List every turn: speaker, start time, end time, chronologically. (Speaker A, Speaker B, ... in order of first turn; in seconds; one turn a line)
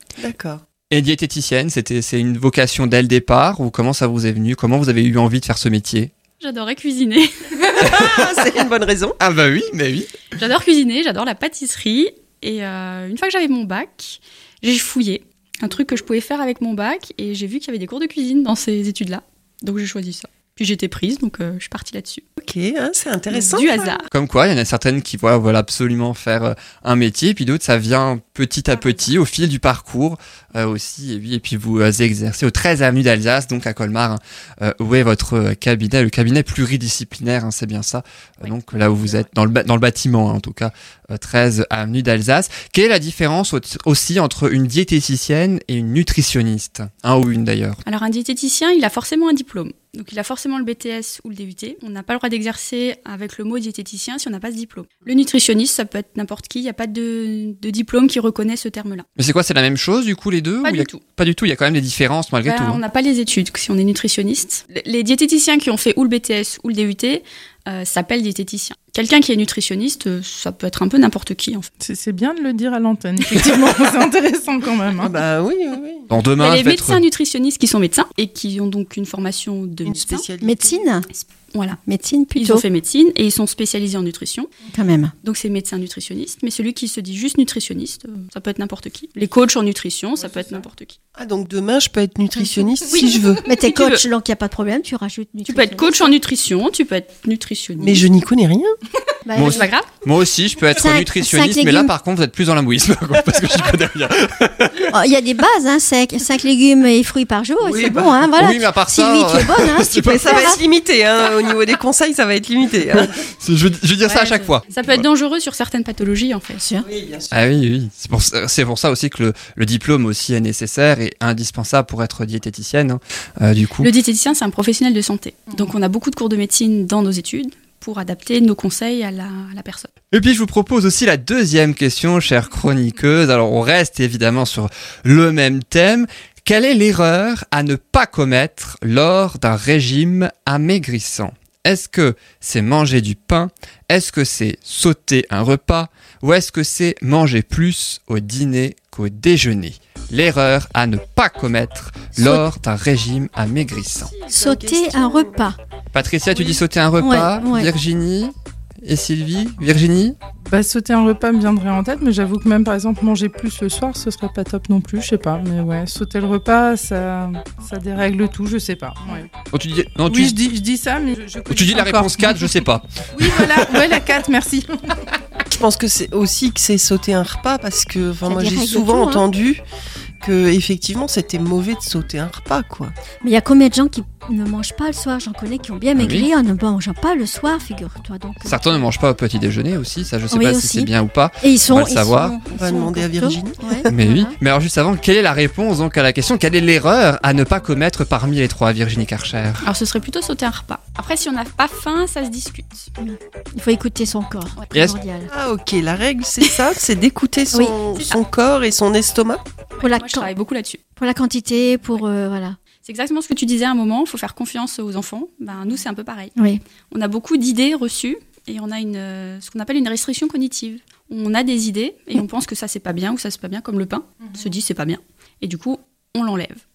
Speaker A: 0.2-0.6
Speaker B: 0.9-6.1
Speaker C: 6.4-7.8
Speaker A: 7.8-9.2
Speaker B: 7.8-8.2
Speaker B: 9.2-10.3
Speaker C: 10.4-22.2
Speaker A: 22.4-24.1
Speaker C: 23.3-24.1
Speaker B: 24.1-47.8
Speaker C: 28.7-29.1
Speaker C: 38.4-39.3
Speaker C: 47.9-59.1
Speaker B: 59.2-62.8
Speaker C: 60.6-61.0
Speaker C: 62.4-71.7
Speaker D: 71.8-75.1
Speaker A: 75.0-76.1
Speaker B: 76.1-77.0
Speaker C: 76.4-80.3
Speaker A: 79.8-80.9
Speaker E: 80.4-81.1
Speaker C: 81.1-81.8
Speaker E: 81.8-82.7
Speaker C: 82.3-84.5
Speaker E: 84.7-85.1
Speaker C: 85.2-91.0
Speaker A: 90.2-90.7
Speaker A: 91.2-93.5
Speaker C: 92.9-94.0
Speaker E: 92.9-96.1
Speaker C: 95.5-98.1
Speaker A: 97.8-98.8
Speaker E: 99.3-99.7
Speaker B: 99.3-104.9
Speaker C: 99.4-99.9
Speaker E: 100.8-101.9
Speaker E: 104.9-110.6
Speaker A: 107.6-108.3
Speaker B: 108.4-110.5
Speaker A: 110.1-113.1
Speaker B: 112.9-115.0
Speaker C: 114.0-116.6
Speaker E: 116.6-116.9
Speaker A: 116.8-117.3
Speaker B: 117.3-123.9
Speaker C: 123.8-129.9
Speaker B: 130.1-154.1
Speaker E: 152.2-152.5
Speaker A: 153.9-155.5
Speaker E: 154.3-155.6
Speaker B: 155.9-160.2
Speaker E: 157.0-157.7
Speaker D: 160.5-169.3
Speaker B: 169.5-170.3
Speaker D: 170.1-175.0
Speaker B: 171.5-172.9
Speaker A: 175.5-179.6
Speaker E: 178.2-179.2
Speaker A: 180.2-182.9
Speaker E: 183.2-188.8
Speaker B: 186.0-186.3
Speaker B: 188.4-192.4
Speaker E: 190.3-194.4
Speaker A: 192.5-193.9
Speaker B: 193.9-199.6
Speaker C: 199.6-202.9
Speaker E: 203.0-205.3
Speaker A: 205.3-209.4
Speaker C: 207.9-208.2
Speaker C: 209.8-210.8
Speaker E: 209.8-210.3
Speaker E: 211.0-212.6
Speaker C: 212.8-216.3
Speaker E: 216.4-216.6
Speaker C: 216.9-226.6